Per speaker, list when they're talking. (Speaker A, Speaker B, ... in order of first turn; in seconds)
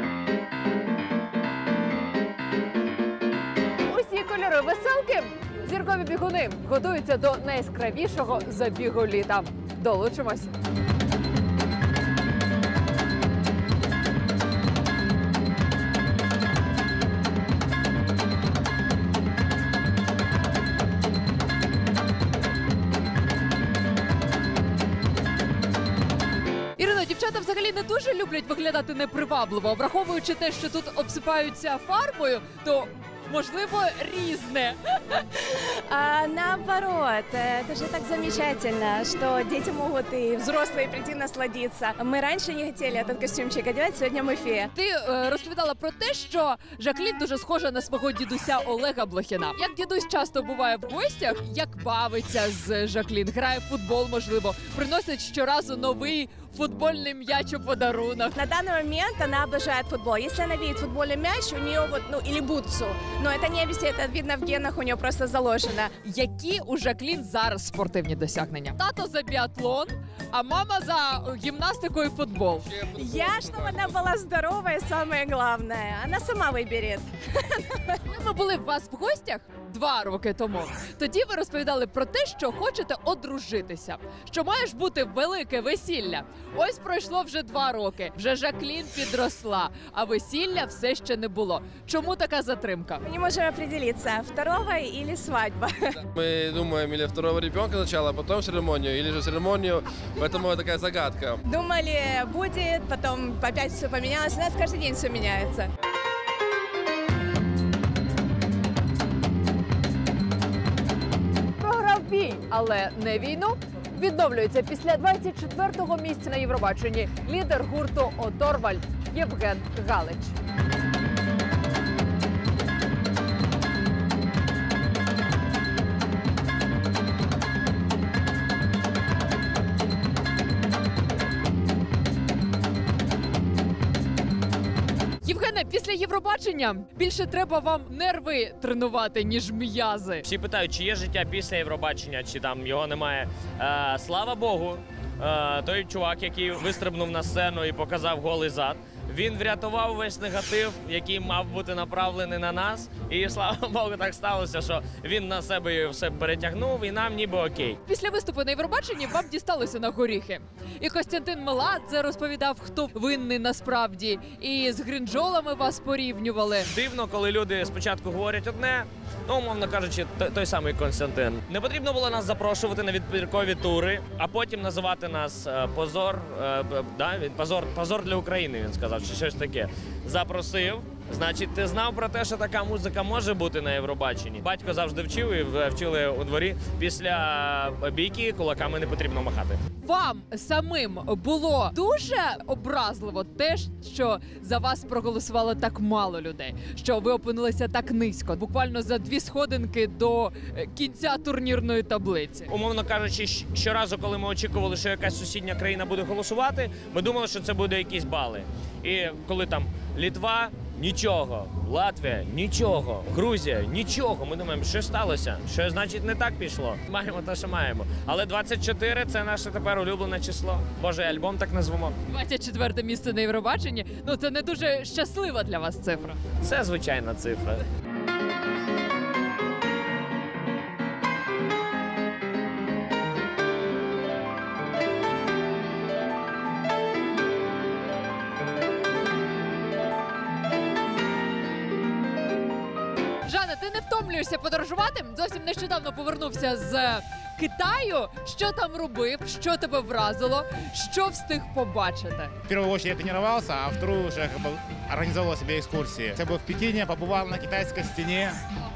Speaker A: 3.8-10.5, 26.8-35.2, 44.7-58.4, 66.0-72.7, 78.0-93.0, 111.6-120.3, 135.2-140.2, 157.8-166.7, 189.8-202.5, 222.1-226.2, 243.2-252.3
Speaker B: 35.5-44.7, 58.3-65.9, 72.9-77.9, 93.0-95.8, 101.5-105.7
Speaker C: 72.7-74.0, 96.1-101.4
Speaker D: 140.2-157.8, 166.7-189.6, 202.5-221.9, 226.4-227.6
Speaker E: 252.5-258.4